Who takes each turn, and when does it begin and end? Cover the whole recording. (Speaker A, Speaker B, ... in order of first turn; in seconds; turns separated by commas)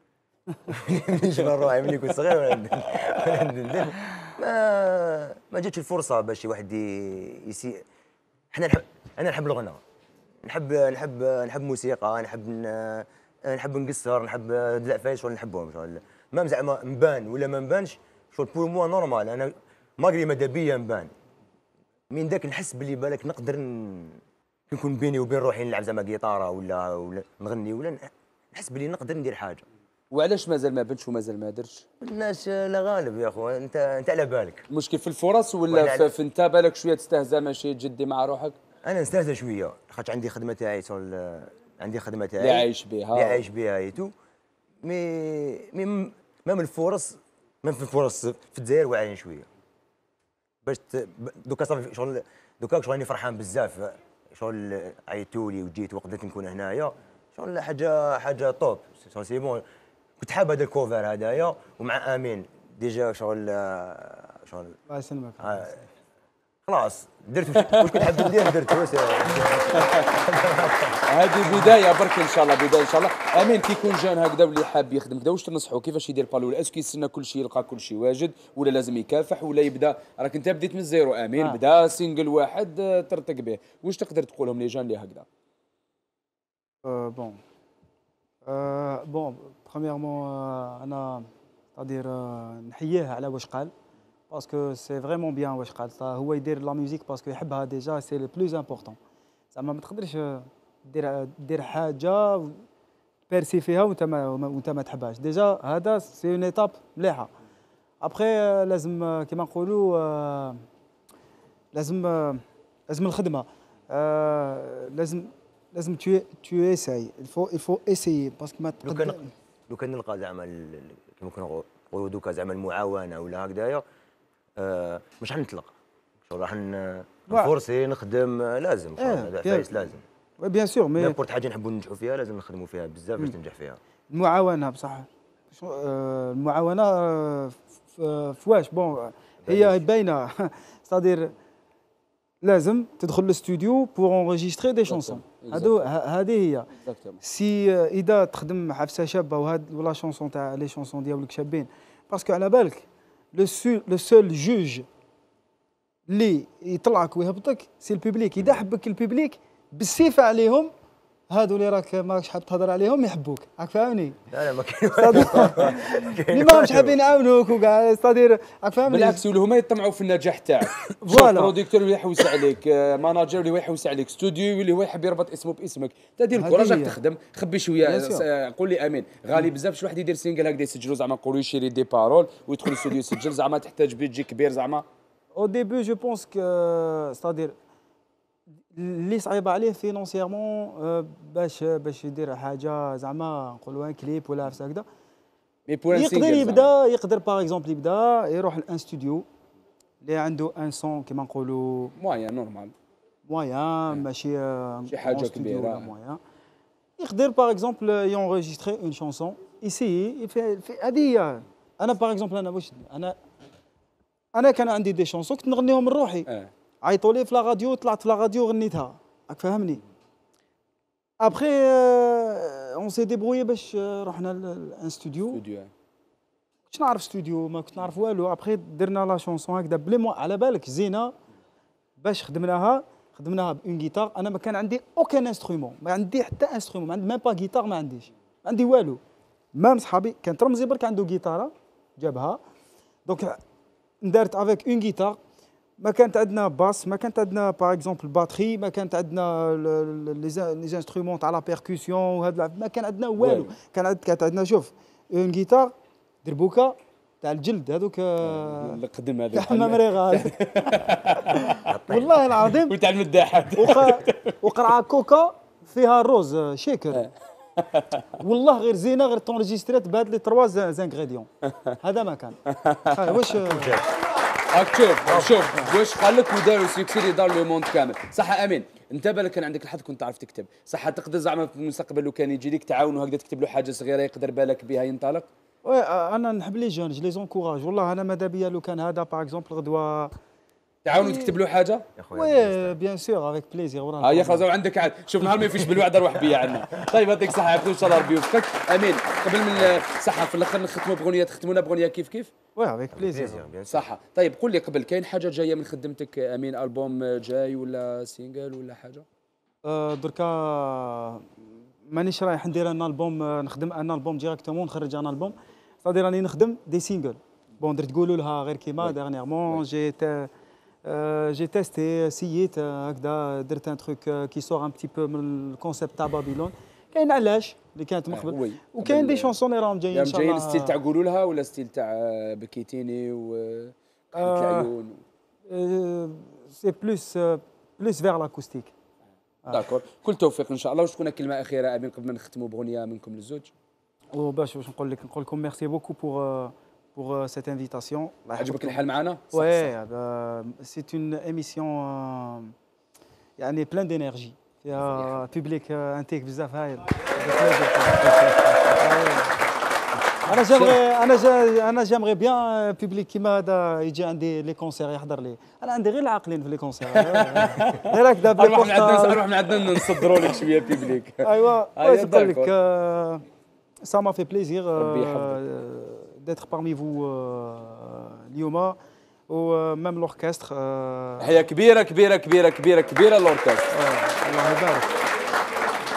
Speaker A: 0.7-7.8, Speaker A: 8.5-9.8, Speaker A: 10.4-21.1, Speaker A: 22.1-24.1, Speaker A: 24.7-28.0, Speaker A: 28.5-29.6, Speaker B: 30.1-31.8, Speaker A: 32.0-34.6, Speaker B: 34.7-38.5, Speaker A: 35.7-36.1, Speaker A: 38.8-44.1, Speaker B: 42.4-43.4, Speaker A: 44.8-49.5, Speaker A: 50.6-59.6, Speaker A: 60.2-64.8, Speaker C: 64.9-65.7, Speaker A: 65.4-65.8, Speaker A: 66.7-71.0, Speaker B: 67.6-68.5, Speaker B: 71.1-85.2, Speaker C: 86.8-87.4, Speaker C: 88.4-93.7, Speaker C: 94.3-99.0, Speaker C: 99.5-102.6, Speaker C: 103.3-107.3, Speaker C: 108.0-110.6, Speaker C: 111.7-119.3, Speaker A: 118.8-119.2, Speaker A: 119.7-123.8, Speaker A: 124.6-125.7, Speaker A: 126.2-130.0, Speaker C: 129.0-129.7, Speaker C: 130.4-131.1, Speaker A: 131.0-133.8, Speaker C: 134.1-141.3, Speaker A: 139.4-139.8, Speaker C: 142.4-146.7, Speaker B: 144.9-145.8, Speaker B: 146.8-147.2, Speaker C: 147.2-154.9, Speaker C: 156.1-160.7, Speaker C: 161.3-164.2, Speaker A: 164.3-166.9, Speaker C: 165.0-169.2, Speaker B: 168.8-184.8, Speaker C: 171.0-171.5, Speaker C: 176.3-177.0, Speaker C: 177.8-178.2, Speaker C: 185.3-187.5, Speaker C: 188.7-194.8, Speaker B: 195.7-196.7, Speaker C: 195.9-199.2, Speaker C: 200.0-201.9, Speaker B: 202.0-202.7, Speaker C: 203.2-206.2, Speaker B: 204.9-205.9, Speaker C: 207.0-213.2, Speaker C: 214.3-216.3, Speaker C: 216.8-219.8, Speaker C: 221.2-225.4, Speaker B: 225.3-225.7, Speaker C: 226.7-231.1, Speaker C: 232.0-239.0, Speaker C: 239.5-242.4, Speaker C: 243.1-243.4, Speaker C: 244.0-245.2, Speaker C: 245.8-258.8, Speaker B: 253.2-253.5, Speaker B: 258.2-261.7, Speaker C: 259.3-260.4, Speaker A: 261.6-262.2, Speaker C: 261.9-262.8, Speaker B: 262.6-264.4, Speaker C: 263.6-267.1, Speaker B: 266.9-268.1, Speaker C: 268.2-271.3, Speaker C: 271.8-272.4, Speaker B: 272.5-273.4, Speaker C: 272.9-273.8, Speaker A: 273.4-273.8, Speaker B: 274.5-285.3, Speaker A: 275.0-275.4, Speaker C: 285.6-290.1, Speaker B: 290.8-291.9, Speaker C: 290.9-291.4, Speaker A: 291.9-292.7, Speaker C: 292.1-294.5, Speaker B: 294.0-302.3, Speaker C: 302.6-303.4, Speaker A: 302.9-303.8, Speaker B: 303.7-309.0, Speaker C: 309.6-311.3, Speaker C: 311.9-320.3, Speaker C: 320.8-330.8, Speaker B: 328.1-329.3, Speaker B: 329.9-335.0, Speaker C: 334.1-334.7, Speaker C: 335.5-338.7, Speaker B: 339.5-343.5, Speaker C: 344.1-348.8, Speaker B: 348.4-349.7, Speaker C: 349.3-352.5, Speaker C: 353.4-359.3, Speaker B: 354.8-355.1, Speaker C: 360.2-370.4, Speaker B: 360.3-360.8, Speaker B: 366.9-372.5, Speaker C: 371.2-373.2, Speaker C: 373.8-378.8, Speaker B: 374.8-375.4, Speaker C: 379.3-381.4, Speaker B: 381.2-383.7, Speaker C: 383.7-384.9